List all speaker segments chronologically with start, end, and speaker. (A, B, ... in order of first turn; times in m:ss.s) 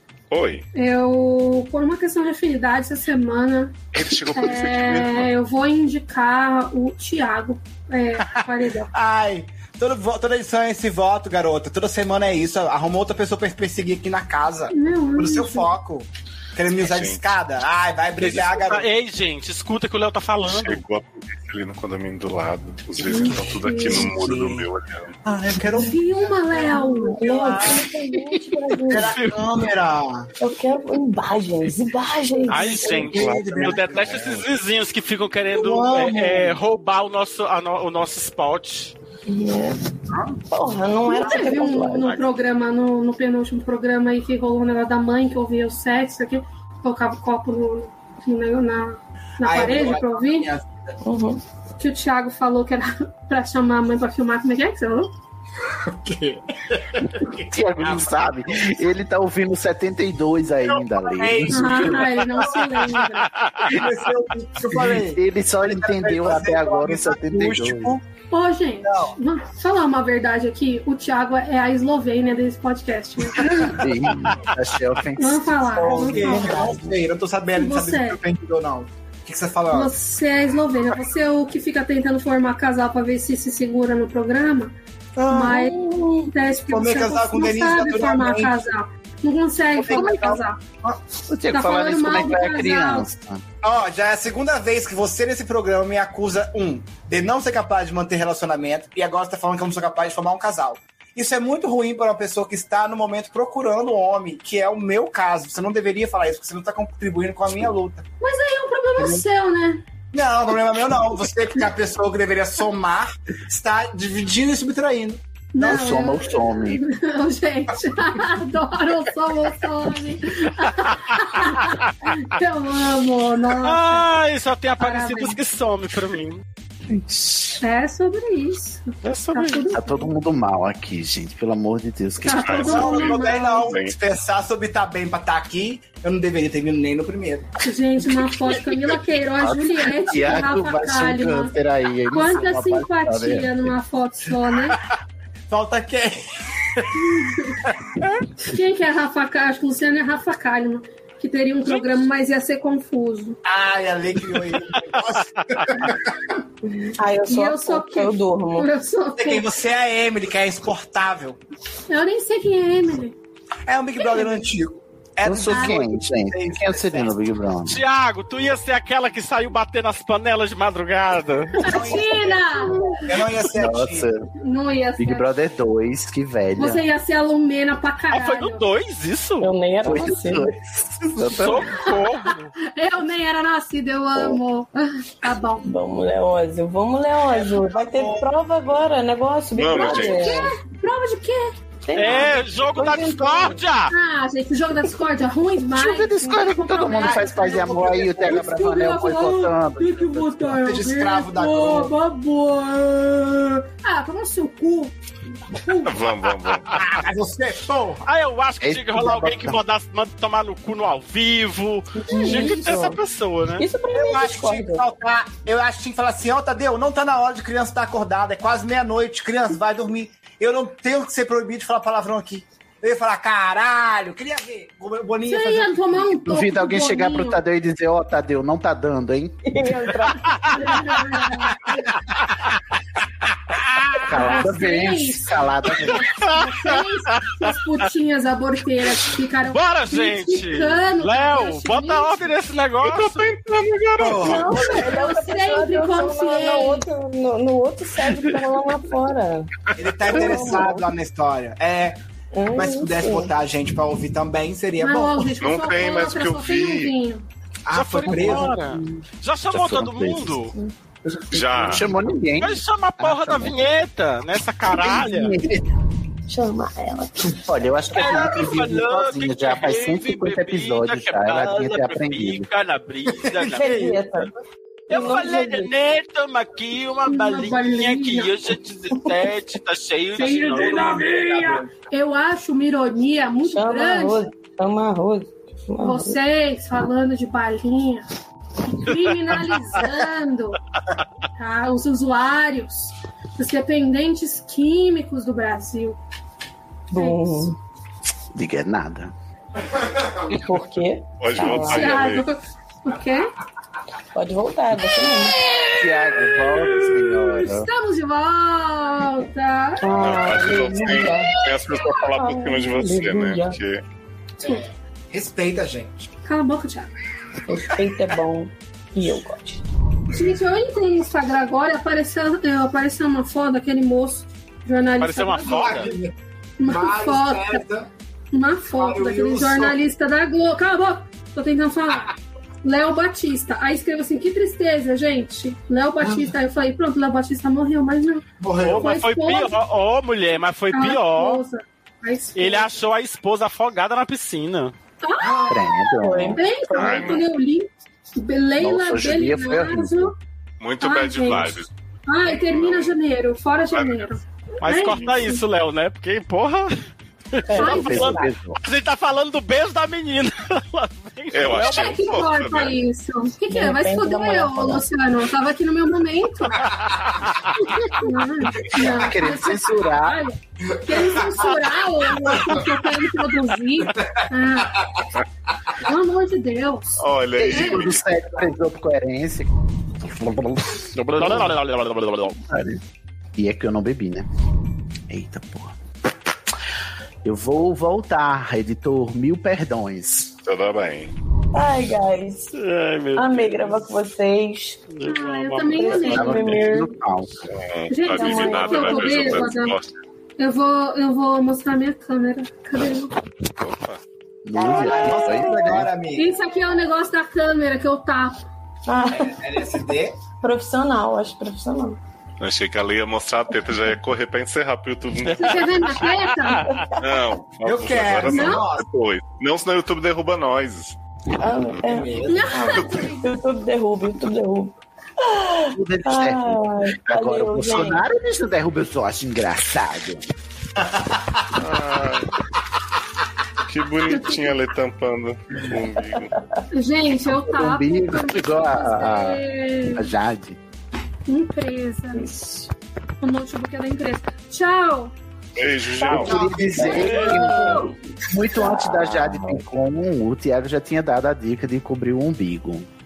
0:00.3-0:00.7 A
0:00.7-0:03.8 B
0:03.9-0:05.3 A
0:04.3-0:08.9 B
0:08.9-0:18.9 C
0:14.7-0:15.7 B
0:16.7-0:17.2 A
0:18.2-0:20.8 D
0:20.5-0:25.2 A
0:23.1-0:23.5 E
0:23.3-0:24.1 B
0:24.1-0:24.6 C
0:25.2-0:26.0 C
0:25.8-0:27.8 B
0:26.6-0:29.2 E
0:27.5-0:28.4 D
0:28.9-0:30.3 C
0:28.9-0:29.4 D
0:30.4-0:33.3 E
0:32.5-0:38.9 D
0:32.6-0:34.4 C
0:35.5-0:36.6 E
0:39.3-0:39.8 E
0:40.5-0:42.2 E
0:41.1-0:50.5 B
0:41.2-0:41.5 C
0:49.4-0:51.0 C
0:51.0-0:51.4 E
0:51.8-0:55.1 B
0:55.7-0:57.4 C
0:57.5-1:02.1 F
1:00.8-1:02.8 C
1:01.5-1:03.3 B
1:02.9-1:03.9 D
1:03.6-1:08.0 C
1:04.7-1:08.0 F
1:08.3-1:13.9 B
1:08.8-1:09.2 C
1:13.4-1:16.0 F
1:15.2-1:16.7 B
1:15.7-1:19.9 C
1:16.1-1:16.8 E
1:17.5-1:18.2 B
1:19.7-1:24.8 B
1:25.2-1:25.5 C
1:25.3-1:25.8 B
1:25.3-1:26.3 E
1:26.3-1:30.6 B
1:26.7-1:28.6 C
1:29.8-1:30.4 F
1:29.8-1:31.0 C
1:31.3-1:33.4 F
1:31.5-1:33.1 B
1:33.6-1:48.0 C
1:48.2-1:49.8 B
1:50.1-1:55.9 C
1:55.5-2:04.1 B
1:55.6-1:56.8 F
2:03.6-2:06.4 D
2:04.8-2:05.4 B
2:07.6-2:10.1 B
2:09.0-2:09.6 D
2:09.7-2:12.8 F
2:12.2-2:13.8 B
2:12.4-2:13.9 A
2:12.6-2:17.6 C
2:17.6-2:21.5 B
2:19.4-2:23.7 F
2:22.1-2:24.8 B
2:25.5-2:27.1 C
2:27.1-2:27.6 B
2:28.4-2:33.4 B
2:33.4-2:36.4 C
2:34.5-2:35.9 D
2:36.7-2:38.7 E
2:37.2-2:39.5 B
2:39.2-2:41.4 C
2:41.9-2:43.2 B
2:43.7-2:47.2 C
2:45.2-2:47.8 F
2:45.5-2:45.8 B
2:47.6-2:51.6 D
2:51.6-2:54.1 C
2:51.6-2:53.1 B
2:52.7-2:53.3 E
2:53.5-2:54.3 F
2:54.4-2:55.3 B
2:55.0-2:56.8 F
2:56.6-2:58.6 B
2:58.1-2:59.5 D
2:59.4-3:00.5 E
2:59.8-3:01.8 F
3:01.3-3:02.5 D
3:02.7-3:05.7 B
3:05.6-3:10.6 E
3:07.3-3:08.3 C
3:09.5-3:10.4 A
3:09.9-3:11.5 B
3:11.8-3:13.6 E
3:11.9-3:13.9 D
3:13.9-3:26.1 B
3:15.7-3:20.6 F
3:16.9-3:18.5 C
3:20.6-3:21.9 C
3:25.8-3:26.8 A
3:26.7-3:28.0 C
3:28.1-3:33.6 D
3:28.6-3:29.6 F
3:32.0-3:33.0 E
3:32.1-3:32.8 B
3:33.5-3:34.8 E
3:33.9-3:45.8 C
3:45.3-3:47.4 B
3:46.2-3:49.4 F
3:49.4-3:50.7 E
3:50.3-3:50.7 D
3:50.5-3:51.8 B
3:51.9-3:52.6 D
3:53.5-3:54.1 D
3:54.0-3:56.0 F
3:54.1-4:02.3 B
3:56.1-3:57.6 D
3:59.4-4:03.3 D
4:02.8-4:04.6 A
4:04.0-4:04.6 C
4:04.2-4:09.5 E
4:04.3-4:06.9 B
4:09.7-4:12.0 C
4:10.1-4:10.9 E
4:12.3-4:13.3 E
4:12.5-4:15.3 C
4:14.8-4:17.2 B
4:15.4-4:16.9 A
4:17.6-4:18.6 C
4:17.7-4:20.5 D
4:18.1-4:20.5 F
4:21.0-4:23.6 F
4:21.3-4:21.9 A
4:22.4-4:25.4 D
4:24.6-4:25.7 F
4:26.3-4:27.4 E
4:27.2-4:32.5 F
4:27.9-4:34.0 D
4:33.2-4:33.9 C
4:33.5-4:34.3 E
4:34.9-4:35.7 E
4:34.9-4:41.2 D
4:37.0-4:38.4 B
4:40.1-4:44.3 B
4:40.5-4:41.6 C
4:43.4-4:46.2 E
4:45.8-4:48.1 B
4:48.6-4:50.6 B
4:51.4-4:56.0 B
4:56.9-4:57.6 E
4:56.9-4:57.5 B
4:58.3-4:59.1 F
5:00.3-5:01.9 E
5:01.2-5:02.2 A
5:01.4-5:03.3 B
5:04.1-5:05.4 E
5:05.5-5:10.1 B
5:05.7-5:07.7 F
5:09.8-5:11.4 E
5:10.0-5:13.8 A
5:10.8-5:11.7 B
5:12.1-5:13.6 E
5:14.4-5:16.0 C
5:16.2-5:16.9 B
5:17.5-5:19.6 E
5:20.1-5:25.8 B
5:25.0-5:25.9 D
5:25.5-5:26.1 C
5:26.6-5:27.6 B
5:26.6-5:27.9 C
5:28.3-5:32.1 B
5:28.7-5:29.8 C
5:32.6-5:39.6 B
5:36.0-5:36.3 C
5:38.4-5:38.9 C
5:38.6-5:41.4 D
5:40.7-5:42.7 B
5:42.4-5:44.7 D
5:45.0-5:50.2 B
5:45.2-5:45.6 C
5:45.5-5:46.4 F
5:46.0-5:47.2 E
5:46.8-5:47.2 A
5:48.6-5:50.1 F
5:50.6-5:51.7 A
5:50.8-5:55.4 B
5:52.2-5:53.0 A
5:53.7-5:54.1 A
5:54.6-5:58.0 D
5:57.5-5:58.3 E
5:57.6-5:58.2 B
5:57.6-5:58.6 F
5:58.6-6:02.0 D
6:01.3-6:02.8 A
6:01.5-6:06.7 B
6:03.5-6:04.8 E
6:06.6-6:07.5 D
6:06.7-6:07.1 C
6:07.5-6:14.8 B
6:08.8-6:10.2 F
6:10.6-6:11.4 C
6:13.9-6:14.3 C
6:15.8-6:17.8 B
6:17.0-6:18.0 A
6:17.4-6:19.5 F
6:20.0-6:21.6 F
6:21.0-6:22.4 D
6:22.4-6:22.8 F
6:23.4-6:24.3 F
6:25.1-6:25.8 F
6:27.2-6:30.3 F
6:30.4-6:31.1 A
6:31.5-6:32.5 E
6:32.5-6:33.9 D
6:33.1-6:34.9 E
6:34.9-6:36.6 D
6:35.0-6:36.4 B
6:35.7-6:36.9 E
6:36.1-6:37.5 F
6:37.5-6:40.0 A
6:37.9-6:39.8 B
6:38.1-6:39.4 E
6:40.4-6:43.1 B
6:43.6-6:44.0 A
6:44.4-6:45.9 F
6:44.6-6:45.7 E
6:44.8-6:45.5 B
6:44.8-6:46.3 C
6:46.1-6:48.4 B
6:48.9-6:49.5 E
6:49.1-6:50.2 C
6:50.4-6:52.0 E
6:52.4-6:55.9 A
6:55.2-6:56.8 D
6:55.4-6:56.7 B
6:57.0-7:01.0 A
6:57.6-6:58.8 C
6:58.2-6:58.6 B
7:01.4-7:08.0 E
7:01.8-7:03.1 C
7:02.3-7:03.3 B
7:05.7-7:10.3 F
7:10.8-7:11.5 C
7:11.5-7:12.3 A
7:13.6-7:16.4 A
7:14.0-7:14.5 B
7:16.3-7:16.6 E
7:16.7-7:20.1 B
7:17.3-7:19.4 F
7:19.9-7:20.6 F
7:21.3-7:22.3 B
7:22.1-7:22.7 E
7:23.2-7:25.1 B
7:25.6-7:26.4 A
7:26.0-7:27.0 C
7:26.1-7:32.9 F
7:26.3-7:27.9 E
7:26.8-7:27.9 B
7:26.9-7:27.9 D
7:28.5-7:29.7 E